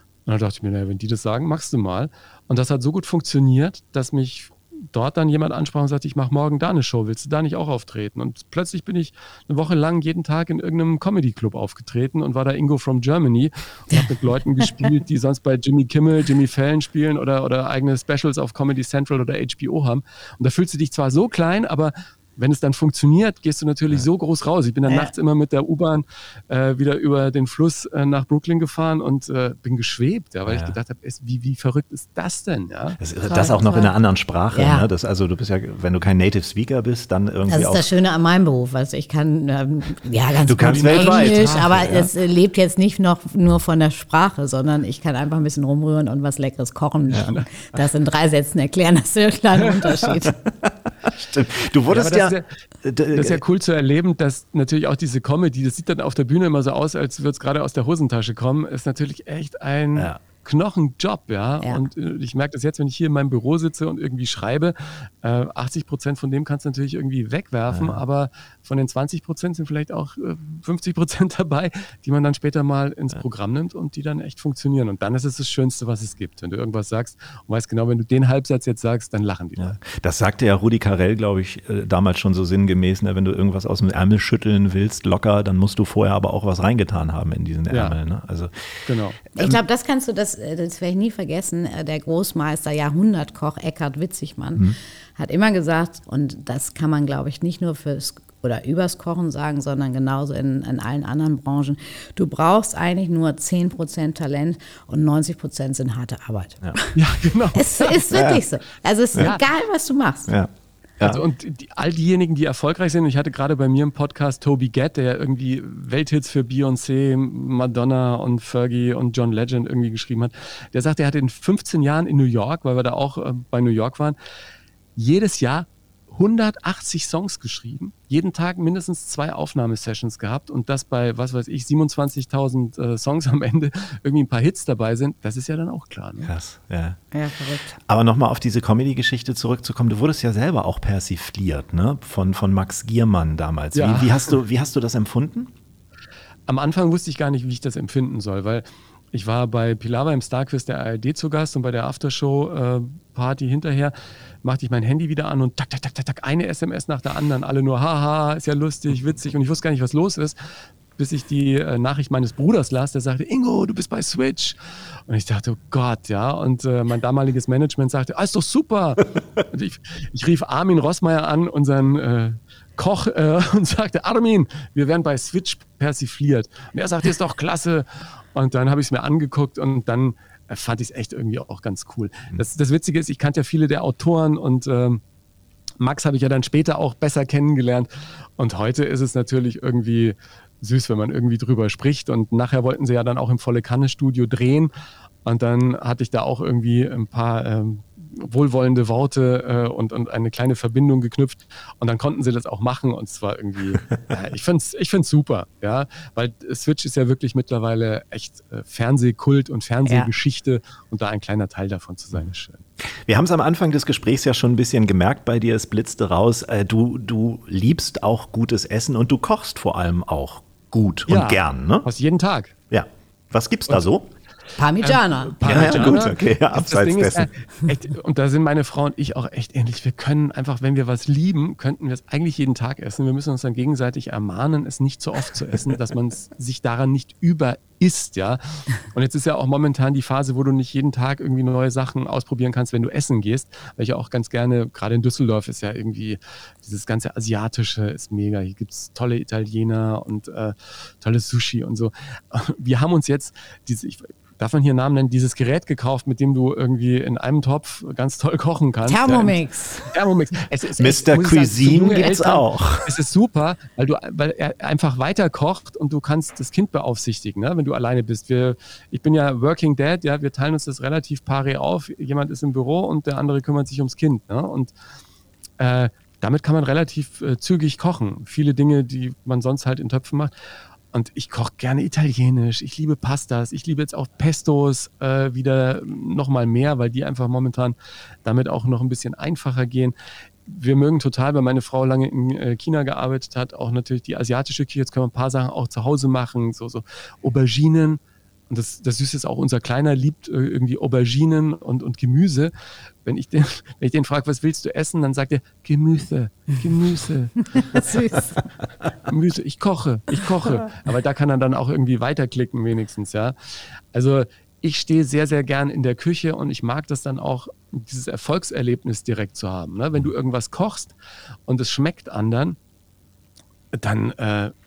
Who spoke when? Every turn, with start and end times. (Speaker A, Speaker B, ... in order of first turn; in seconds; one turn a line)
Speaker A: 0.2-33.0
Speaker B: 24.9-25.1
Speaker C: 30.4-30.8
Speaker C: 33.0-37.9
Speaker B: 33.2-33.9
Speaker B: 34.5-34.9
Speaker B: 37.5-50.4
Speaker C: 40.5-42.1
Speaker A: 40.6-42.0
Speaker A: 47.2-47.5
Speaker C: 50.6-53.4
Speaker A: 51.9-52.5
Speaker A: 53.1-79.8
Speaker C: 67.7-68.0
Speaker C: 79.6-88.8
Speaker A: 87.7-88.0
Speaker A: 88.8-89.2
Speaker B: 89.3-107.0
Speaker A: 106.9-108.2
Speaker B: 107.5-110.3
Speaker C: 108.1-108.4
Speaker C: 110.3-111.2
Speaker A: 111.0-124.2
Speaker A: 125.0-136.3
Speaker C: 136.2-137.0
Speaker B: 137.1-137.7
Speaker C: 137.7-145.5
Speaker A: 143.7-144.4
Speaker A: 146.5-160.4
Speaker A: 161.0-185.0
Speaker A: 185.8-194.7
Speaker A: 195.2-212.6
Speaker C: 213.0-221.9
Speaker A: 221.1-222.5
Speaker C: 222.7-224.1
Speaker B: 224.6-226.1
Speaker A: 224.8-274.7
Speaker C: 225.4-227.3
Speaker B: 258.8-259.9
Speaker C: 260.8-262.9
Speaker A: 275.6-280.3
Speaker A: 280.9-289.9
Speaker A: 290.4-302.5
Speaker A: 303.0-307.8
Speaker B: 307.5-308.4
Speaker A: 309.0-320.9
Speaker A: 321.5-322.6
Speaker A: 323.7-324.5